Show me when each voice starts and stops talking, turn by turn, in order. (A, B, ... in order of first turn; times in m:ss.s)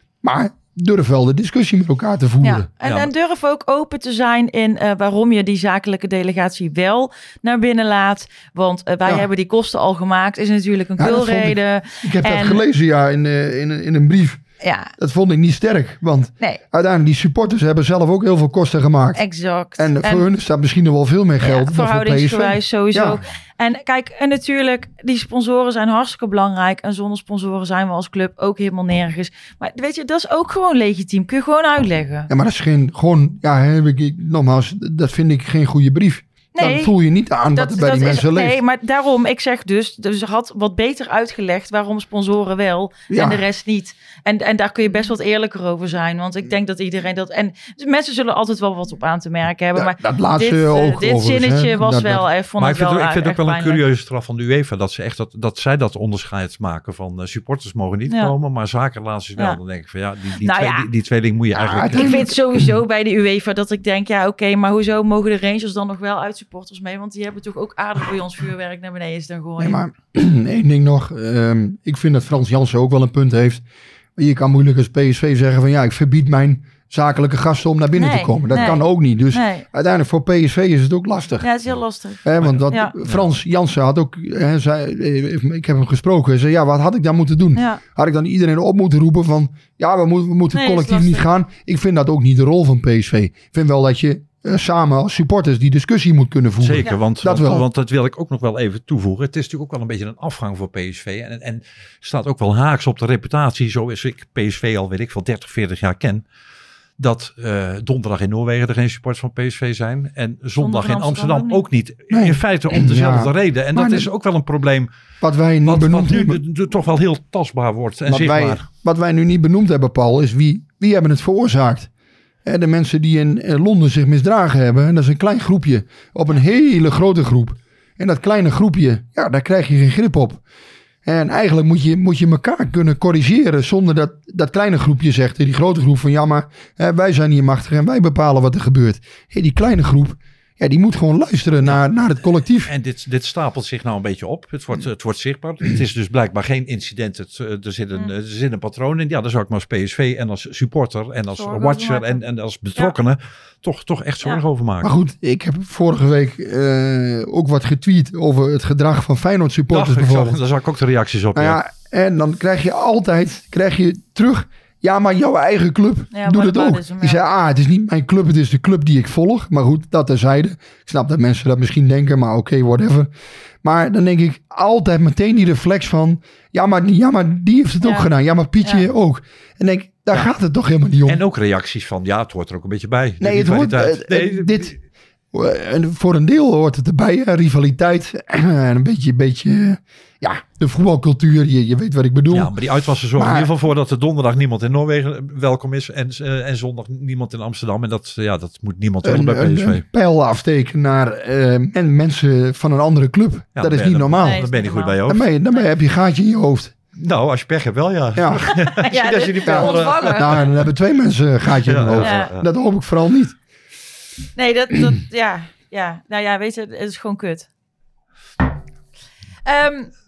0:00.2-0:02.7 A
0:02.4-0:12.6 B
0:02.8-0:03.1 C
0:11.0-0:14.4 A
0:14.6-0:14.9 B
0:15.0-0:19.2 A
0:19.2-0:20.3 B
0:19.8-0:23.2 A
0:21.4-0:32.3 B
0:32.3-0:38.6 A
0:36.6-0:36.9 B
0:37.6-0:53.8 B
0:43.1-0:43.4 A
0:49.8-0:52.2 A
0:52.6-1:02.2 C
0:58.1-0:58.4 B
1:00.4-1:00.9 B
1:01.5-1:02.7 A
1:01.9-1:09.8 B
1:09.6-1:13.6 A
1:14.2-1:21.5 A
1:18.0-1:19.6 B
1:21.4-1:22.9 B
1:22.2-1:37.7 A
1:22.4-1:23.3 C
1:27.6-1:27.8 B
1:30.5-1:31.3 B
1:36.6-1:46.2 C
1:47.0-1:54.9 C
1:50.6-1:51.6 B
1:52.1-1:54.1 A
1:55.2-1:56.4 A
1:55.6-1:58.6 C
1:58.1-2:01.9 A
2:02.4-2:10.4 A
2:11.0-2:22.7 A
2:22.7-2:34.9 C
2:31.3-2:32.2 B
2:34.8-2:40.4 A
2:39.7-2:41.6 C
2:41.3-2:53.1 A
2:46.1-2:47.2 B
2:53.6-3:01.2 A
2:57.8-2:58.1 B
3:01.0-3:04.8 C
3:03.2-3:04.8 A
3:05.3-3:12.5 A
3:12.3-3:19.8 C
3:13.2-3:13.5 A
3:19.0-3:24.4 A
3:23.6-3:25.3 C
3:24.2-3:25.0 B
3:25.0-3:26.7 A
3:27.0-3:30.5 C
3:28.2-3:28.5 A
3:28.8-3:30.4 B
3:29.4-3:33.4 A
3:31.6-3:32.4 C
3:32.0-3:32.3 B
3:34.4-3:37.5 B
3:39.5-3:39.9 B